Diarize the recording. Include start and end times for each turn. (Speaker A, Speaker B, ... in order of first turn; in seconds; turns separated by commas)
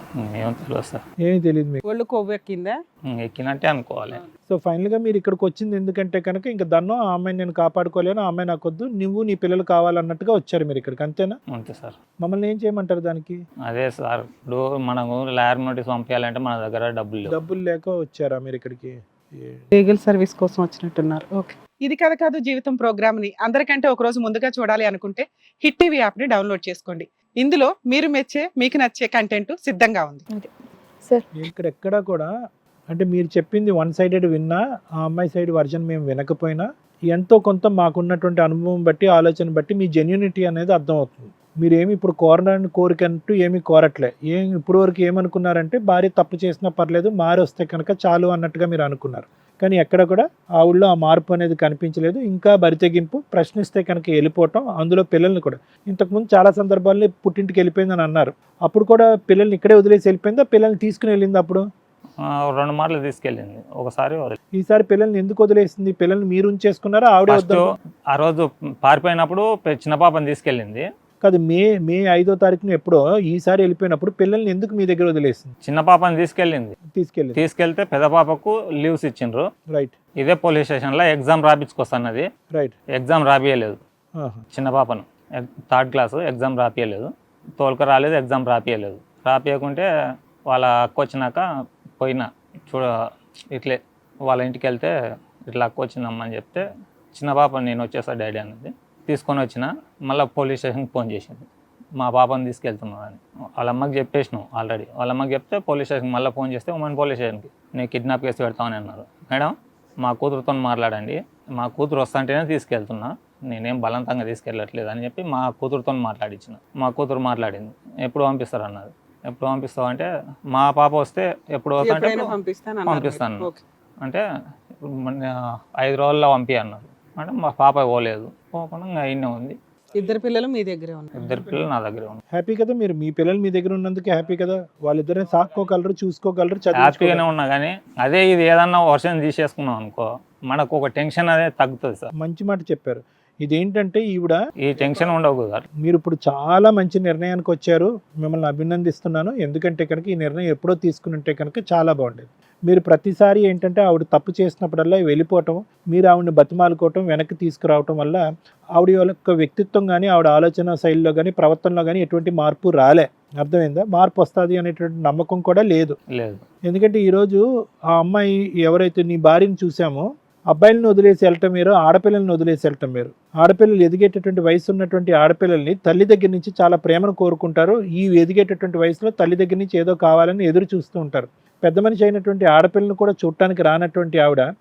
Speaker A: 0.2-1.0, Speaker B: 1.2-1.8, Speaker C: 1.9-2.8, Speaker A: 3.1-4.2, Speaker B: 4.5-11.4, Speaker A: 11.5-12.0, Speaker B: 12.2-13.4, Speaker A: 13.7-17.3, Speaker B: 17.2-19.7, Speaker C: 19.7-30.2, Speaker B: 31.4-32.3, Speaker B: 32.9-61.6, Speaker A: 62.2-64.4, Speaker B: 64.5-67.7, Speaker A: 67.3-70.8, Speaker B: 71.2-75.5, Speaker A: 75.7-76.8, Speaker B: 76.9-77.4, Speaker A: 77.3-79.5, Speaker A: 80.2-82.3, Speaker A: 83.0-83.8, Speaker B: 84.2-84.4, Speaker A: 84.5-89.9, Speaker A: 90.5-91.4, Speaker A: 92.0-92.9, Speaker A: 93.5-94.9, Speaker A: 95.5-101.5, Speaker A: 102.0-122.3, Speaker C: 121.8-123.6, Speaker A: 122.9-123.5, Speaker A: 124.8-129.6, Speaker C: 129.9-131.3, Speaker A: 131.2-132.2, Speaker B: 132.3-137.2, Speaker A: 136.8-142.1, Speaker B: 142.2-144.4, Speaker A: 144.6-145.7, Speaker B: 145.8-158.2, Speaker B: 158.8-166.0, Speaker A: 166.1-166.4, Speaker B: 166.7-167.4, Speaker B: 167.9-184.5